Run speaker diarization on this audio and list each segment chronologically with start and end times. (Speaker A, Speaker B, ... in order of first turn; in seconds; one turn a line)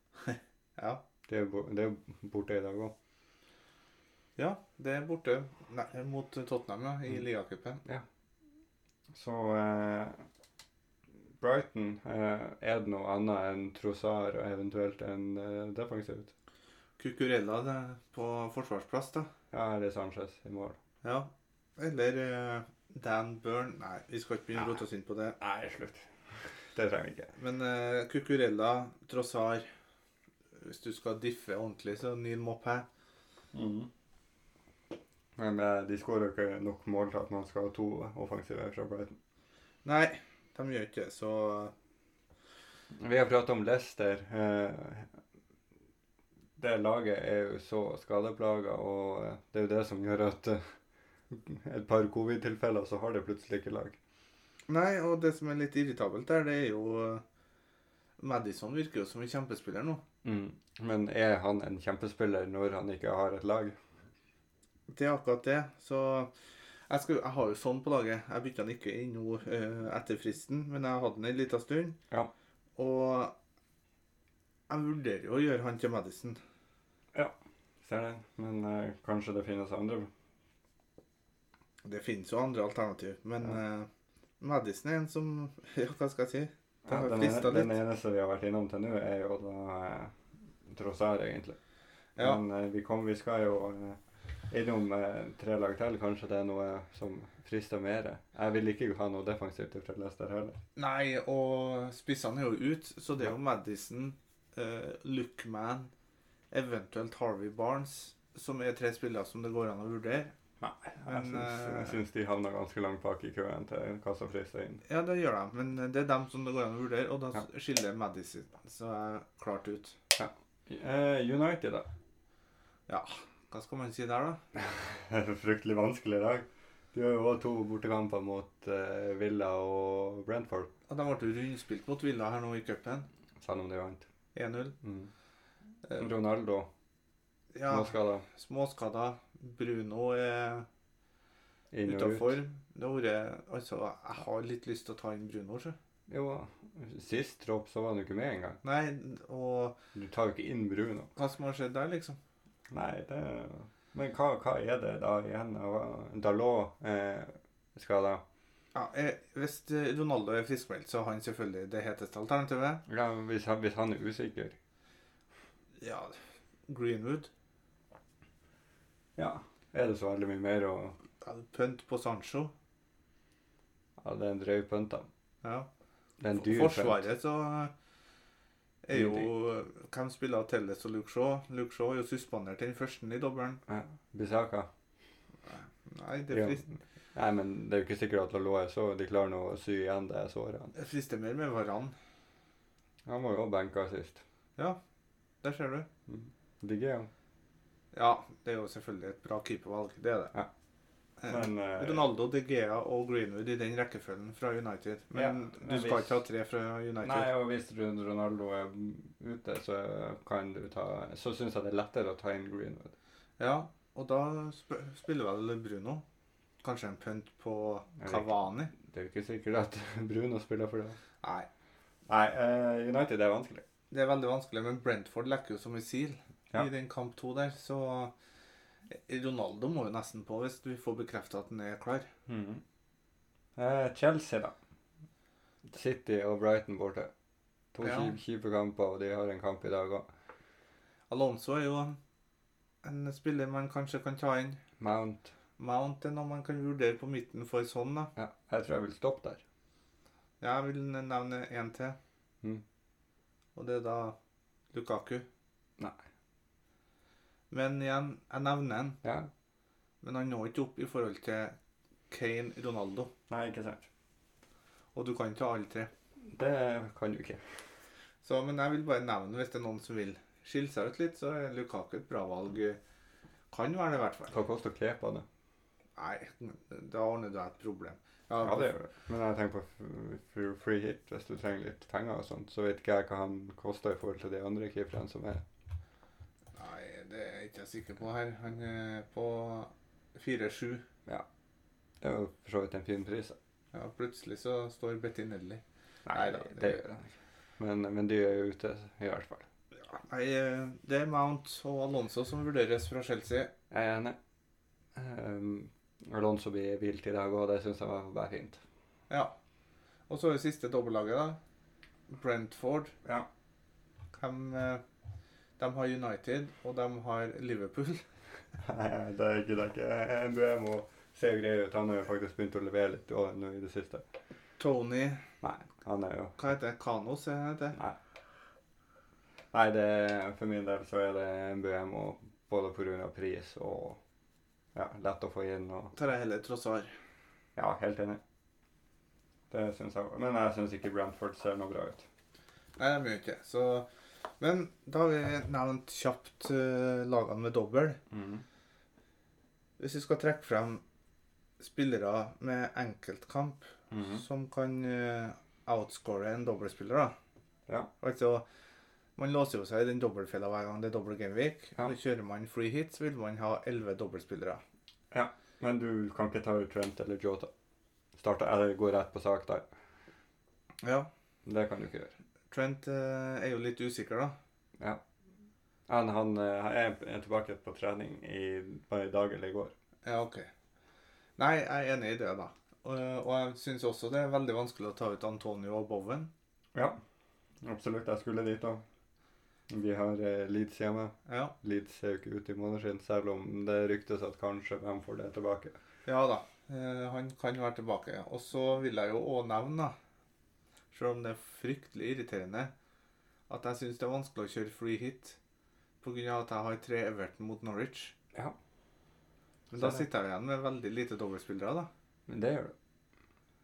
Speaker A: 0.2-1.0
Speaker B: 1.3-2.9
Speaker A: 4.4-7.8
Speaker B: 9.1-10.2
Speaker B: 11.4-16.3
Speaker A: 17.0-19.3
Speaker B: 19.5-20.8
Speaker A: 21.0-25.4
Speaker B: 25.4-26.1
Speaker B: 26.7-27.3
Speaker A: 27.4-29.7
Speaker A: 30.6-32.9
Speaker B: 33.5-33.9
Speaker B: 35.4-39.2
Speaker A: 39.9-41.7
Speaker B: 42.9-45.2
Speaker B: 46.6-50.7
Speaker B: 51.3-54.0
Speaker A: 54.7-57.2
Speaker A: 58.2-60.0
Speaker B: 60.2-63.8
Speaker A: 64.9-66.3
Speaker A: 66.9-72.0
Speaker A: 72.8-73.3
Speaker A: 74.7-76.4
Speaker B: 77.1-80.1
Speaker A: 81.8-83.9
Speaker A: 84.4-87.8
Speaker B: 86.9-90.1
Speaker B: 90.7-91.6
Speaker B: 92.2-94.0
Speaker B: 94.5-100.6
Speaker A: 100.8-105.9
Speaker A: 106.5-110.3
Speaker B: 110.6-114.8
Speaker A: 111.0-112.0
Speaker A: 114.9-120.0
Speaker B: 120.2-121.9
Speaker A: 122.9-124.4
Speaker B: 124.5-130.7
Speaker A: 130.9-133.1
Speaker B: 133.4-134.1
Speaker A: 134.3-134.8
Speaker B: 134.8-135.1
Speaker B: 136.0-136.7
Speaker A: 137.5-140.7
Speaker B: 137.7-138.2
Speaker B: 141.7-142.4
Speaker A: 141.8-145.8
Speaker B: 146.1-148.6
Speaker A: 148.6-149.8
Speaker B: 149.9-151.1
Speaker A: 151.2-152.2
Speaker B: 152.7-158.2
Speaker A: 158.7-162.8
Speaker B: 162.9-164.6
Speaker A: 165.8-166.2
Speaker A: 166.7-167.3
Speaker B: 169.2-171.0
Speaker A: 171.2-172.5
Speaker B: 174.0-175.1
Speaker A: 175.4-175.7
Speaker B: 176.2-177.0
Speaker A: 176.3-177.7
Speaker A: 178.8-183.6
Speaker B: 178.9-179.3
Speaker B: 183.7-184.7
Speaker A: 185.5-186.7
Speaker B: 186.3-186.6
Speaker B: 187.1-190.7
Speaker A: 190.8-191.9
Speaker B: 193.1-194.2
Speaker A: 195.4-195.9
Speaker B: 196.1-197.1
Speaker A: 197.9-200.3
Speaker A: 201.2-207.3
Speaker B: 201.3-202.0
Speaker B: 205.1-206.2
Speaker B: 207.0-212.9
Speaker A: 213.4-216.0
Speaker A: 216.6-218.7
Speaker B: 218.0-221.0
Speaker A: 221.2-221.5
Speaker B: 222.1-223.7
Speaker A: 223.9-228.1
Speaker A: 228.9-232.1
Speaker B: 232.3-232.6
Speaker B: 233.6-234.6
Speaker B: 235.7-237.1
Speaker B: 237.7-240.1
Speaker A: 237.8-238.2
Speaker A: 241.1-242.0
Speaker A: 242.8-244.6
Speaker B: 244.8-245.3
Speaker A: 245.6-248.1
Speaker B: 248.2-249.4
Speaker A: 250.4-252.0
Speaker A: 253.6-254.2
Speaker A: 254.7-255.3
Speaker A: 257.5-259.0
Speaker B: 259.0-259.3
Speaker A: 260.0-261.6
Speaker A: 262.1-263.1
Speaker B: 263.3-263.9
Speaker A: 264.9-265.9
Speaker B: 266.3-267.4
Speaker A: 268.2-272.8
Speaker A: 273.5-274.3
Speaker B: 274.3-275.3
Speaker A: 276.0-278.7
Speaker B: 278.4-285.4
Speaker A: 286.6-290.9
Speaker B: 292.0-293.4
Speaker A: 293.7-296.8
Speaker B: 296.1-299.5
Speaker A: 299.8-303.5
Speaker B: 303.7-304.2
Speaker B: 304.9-308.6
Speaker A: 310.1-311.4
Speaker A: 312.1-312.9
Speaker A: 314.2-314.8
Speaker A: 315.6-318.0
Speaker B: 318.6-324.0
Speaker A: 324.6-325.2
Speaker B: 325.4-326.4
Speaker A: 326.4-327.8
Speaker B: 329.5-334.0
Speaker B: 334.8-335.9
Speaker A: 335.9-336.9
Speaker B: 337.6-338.2
Speaker B: 339.5-342.1
Speaker A: 342.8-343.9
Speaker A: 344.4-348.0
Speaker B: 348.1-348.4
Speaker A: 349.8-350.8
Speaker A: 351.6-357.1
Speaker B: 353.9-354.2
Speaker A: 358.0-358.5
Speaker A: 359.2-364.6
Speaker B: 365.1-367.5
Speaker B: 368.1-369.6
Speaker A: 370.8-371.1
Speaker B: 371.4-372.1
Speaker A: 372.5-374.4
Speaker B: 375.9-379.7
Speaker A: 380.1-380.5
Speaker A: 381.4-386.3
Speaker B: 386.7-387.0
Speaker B: 387.6-388.8
Speaker B: 389.7-395.8
Speaker A: 391.3-391.5
Speaker A: 396.1-399.9
Speaker A: 400.9-402.7
Speaker A: 403.5-405.4
Speaker A: 406.0-408.1
Speaker A: 409.7-411.9
Speaker B: 409.8-410.1
Speaker B: 412.3-412.7